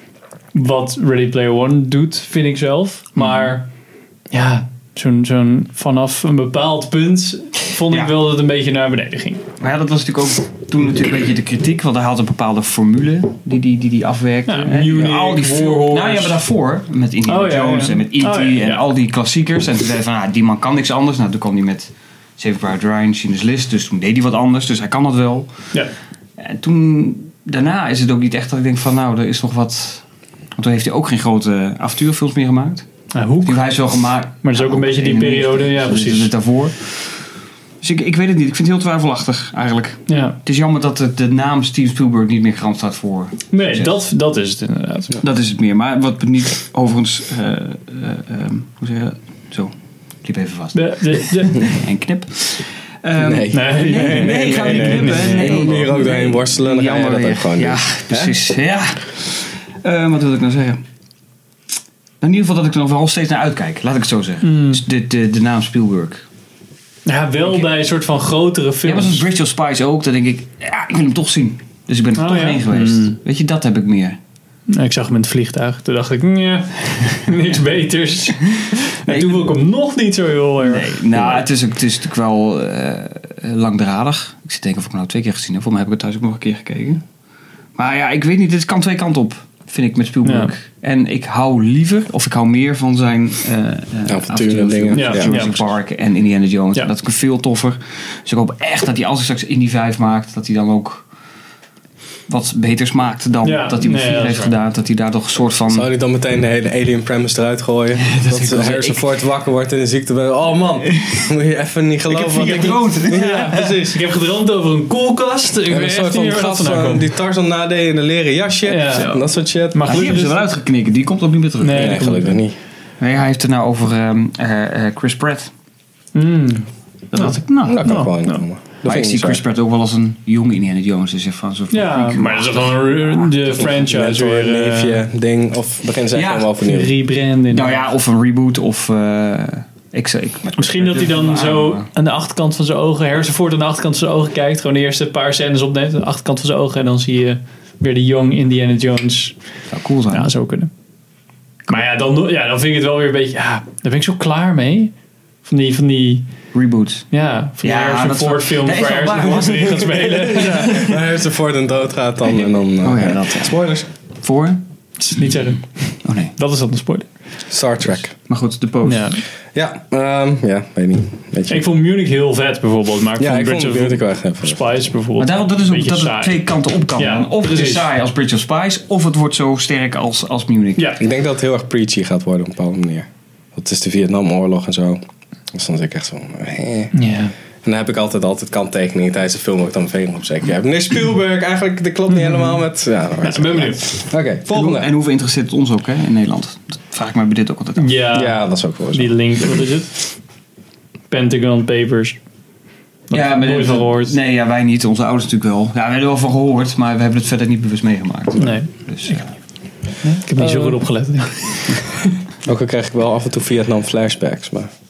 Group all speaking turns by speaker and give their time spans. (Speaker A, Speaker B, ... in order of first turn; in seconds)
Speaker A: 0.5-3.7, 4.3-9.4, 14.5-16.4, 17.3-18.8, 33.1-36.3, 40.1-40.4, 43.5-45.2, 50.8-51.8, 53.5-55.9, 64.4-64.8, 67.1-69.2, 72.2-73.2, 74.7-81.5, 90.2-90.5, 94.9-95.7, 103.4-104.5, 113.1-117.1, 118.7-119.1, 119.7-120.4, 121.6-122.4, 126.1-128.4, 131.7-135.0, 136.6-137.8, 140.6-149.3, 150.1-150.7, 151.7-154.9, 155.5-156.3, 157.1-160.8, 165.0-167.1, 168.8-169.2, 171.5-177.8, 180.8-181.0, 186.9-187.3, 192.3-192.6, 193.2-193.9, 197.8-200.1, 201.1-202.2, 203.1-204.1, 208.3-209.2, 210.3-211.9
Speaker B: 3.2-3.6, 7.9-8.2, 9.6-25.8, 26.4-32.9, 33.4-44.0, 45.2-60.8, 62.2-66.2, 67.4-67.8, 68.8-74.2, 79.0-79.5, 80.6-87.0, 87.8-101.0, 102.3-105.9, 107.9-109.0, 112.1-113.8, 118.9-119.3, 119.8-122.0, 123.0-125.5, 127.1-127.9, 128.8-133.7, 136.1-136.6, 137.5-141.9, 149.7-150.3, 156.5-157.1, 157.6-161.0, 162.8-164.6, 166.0-166.3, 167.8-169.2, 175.2-180.8, 194.5-198.0, 203.1-209.3, 210.0-210.3
Speaker C: 53.2-58.3, 94.1-95.4, 105.7-114.0, 115.7-119.9, 121.7-122.5, 127.6-129.4, 133.6-136.9, 160.3-163.9, 167.5-168.1, 169.5-171.6, 173.2-174.7, 181.0-185.0, 185.5-187.0, 187.6-194.9, 198.1-199.2, 210.4-210.7, 212.4-214.7